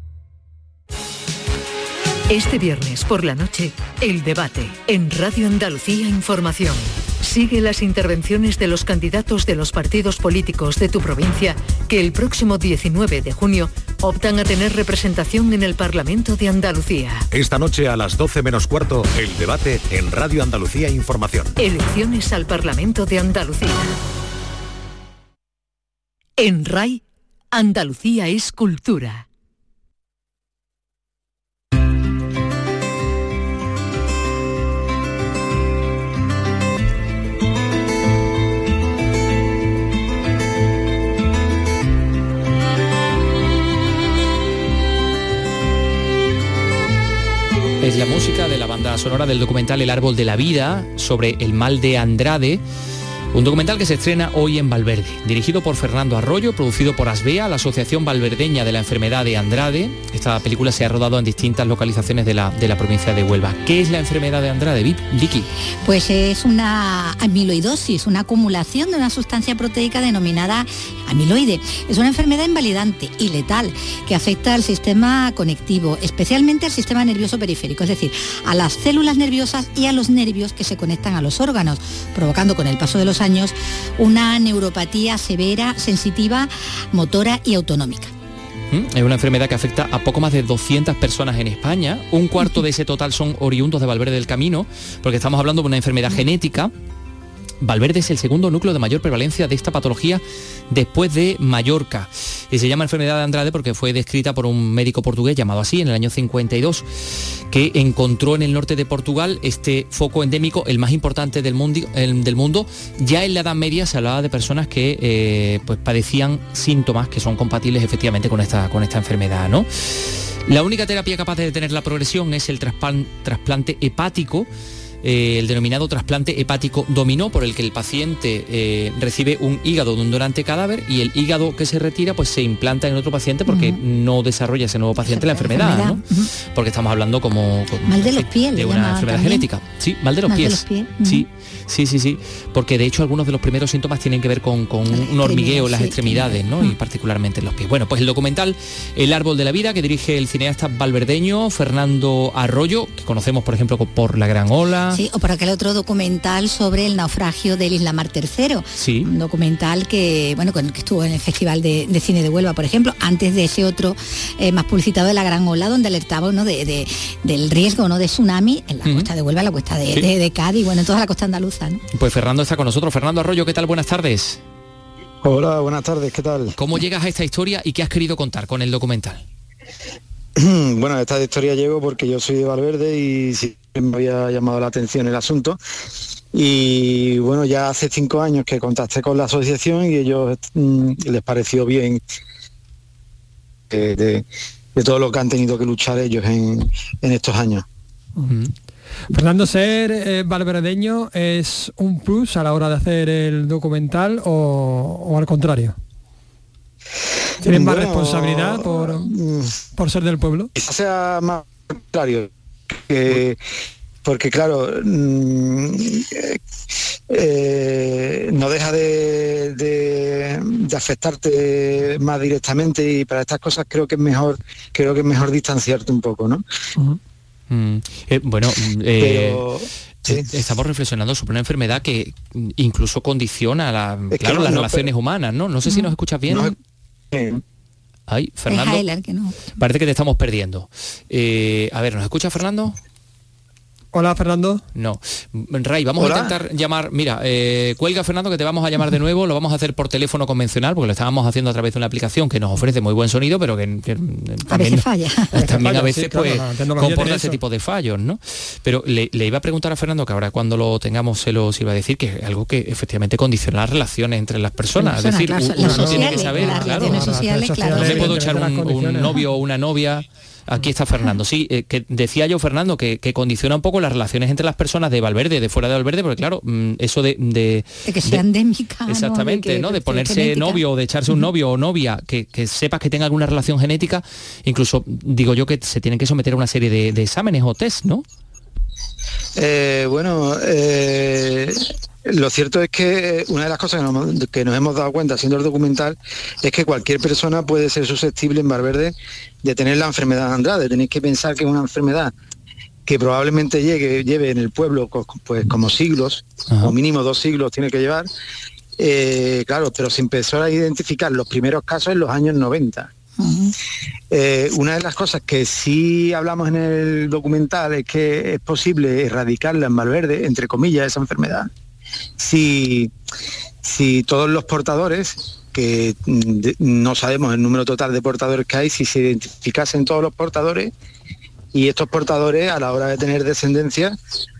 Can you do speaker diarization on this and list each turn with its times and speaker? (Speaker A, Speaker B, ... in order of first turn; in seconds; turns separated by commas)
Speaker A: 2.3-17.2, Speaker B: 17.3-21.6, Speaker A: 21.6-23.9, Speaker A: 26.4-27.0, Speaker A: 27.5-29.2, Speaker C: 47.8-52.6, Speaker C: 53.3-65.5, Speaker D: 65.8-88.1, Speaker C: 88.7-96.7, Speaker C: 97.6-124.5, Speaker C: 125.0-155.0, Speaker D: 133.5-133.8, Speaker D: 135.0-136.3, Speaker D: 137.8-139.5, Speaker D: 140.3-141.3, Speaker D: 144.9-146.8, Speaker D: 154.9-171.8, Speaker C: 158.8-159.1, Speaker C: 168.8-169.1, Speaker C: 171.9-174.4, Speaker E: 175.2-176.5, Speaker C: 176.6-179.2, Speaker E: 180.4-185.6, Speaker E: 186.3-192.0, Speaker E: 193.7-197.6, Speaker F: 199.1-205.8, Speaker E: 207.4-209.5, Speaker F: 207.4-209.1, Speaker F: 209.8-210.5, Speaker E: 210.5-213.4, Speaker E: 214.0-216.4, Speaker E: 217.1-226.4, Speaker C: 227.5-229.4, Speaker E: 229.0-230.3, Speaker C: 230.0-236.5, Speaker E: 234.1-234.9, Speaker D: 235.7-235.9, Speaker E: 236.3-236.5, Speaker E: 237.1-237.4, Speaker C: 238.1-238.8, Speaker D: 238.5-239.6, Speaker C: 239.6-242.7, Speaker F: 243.9-244.6, Speaker C: 244.7-267.2, Speaker E: 246.0-246.3, Speaker D: 254.5-255.6, Speaker F: 255.4-257.4, Speaker D: 264.7-268.3, Speaker F: 265.6-269.2, Speaker C: 267.7-278.2, Speaker D: 277.8-281.2, Speaker C: 278.9-288.0, Speaker E: 289.4-302.1, Speaker E: 302.9-308.1, Speaker C: 306.5-306.7, Speaker E: 308.8-312.9, Speaker D: 313.2-313.5, Speaker E: 314.1-321.5, Speaker E: 322.2-322.9, Speaker E: 323.6-330.7, Speaker E: 331.5-333.9